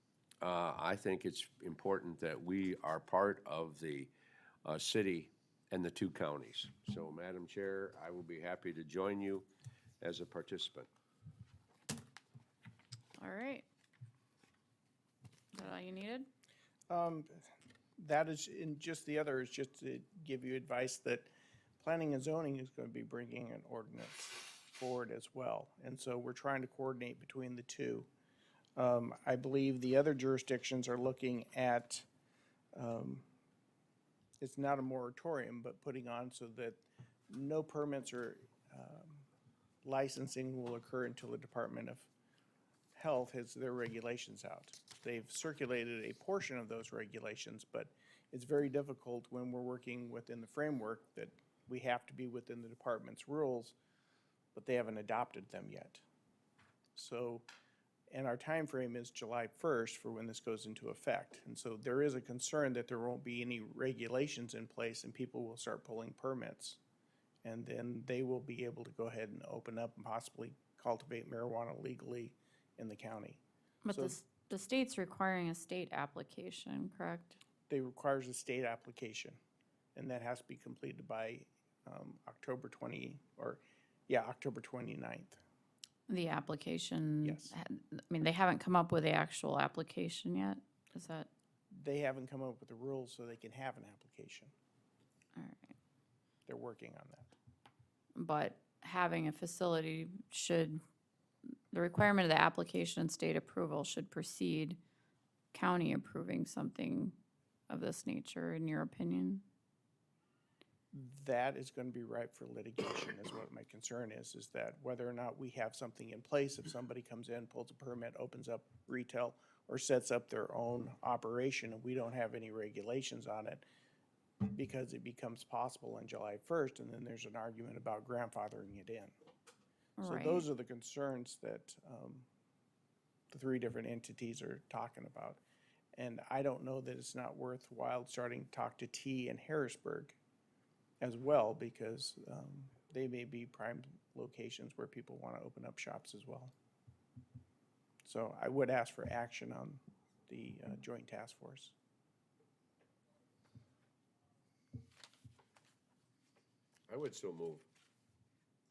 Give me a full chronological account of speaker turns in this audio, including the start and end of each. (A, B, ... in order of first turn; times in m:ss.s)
0:00.4-0:04.1 A
0:04.6-0:09.5 A
0:10.0-0:10.9 A
0:13.2-0:13.7 B
0:15.5-0:16.3 B
0:16.9-0:28.1 C
0:28.8-0:32.1 C
0:32.7-0:33.3 C
0:34.4-0:39.3 C
0:39.8-0:42.1 C
0:43.0-0:53.8 C
0:54.6-0:56.0 C
0:57.0-0:57.5 C
0:58.1-1:06.8 C
1:07.4-1:14.2 C
1:13.8-1:17.4 B
1:17.7-1:19.4 C
1:20.0-1:25.4 C
1:26.1-1:31.3 B
1:27.2-1:27.6 C
1:31.7-1:34.5 C
1:35.4-1:35.7 B
1:36.5-1:37.3 C
1:38.2-1:40.8 B
1:41.7-1:44.8 B
1:45.5-1:47.2 B
1:47.7-1:49.4 B
1:50.9-2:03.6 C
2:04.4-2:09.1 C
2:10.0-2:10.5 B
2:10.0-2:12.3 C
2:13.3-2:15.4 C
2:16.0-2:20.2 C
2:21.0-2:26.5 C
2:28.0-2:31.7 C
2:36.9-2:37.7 A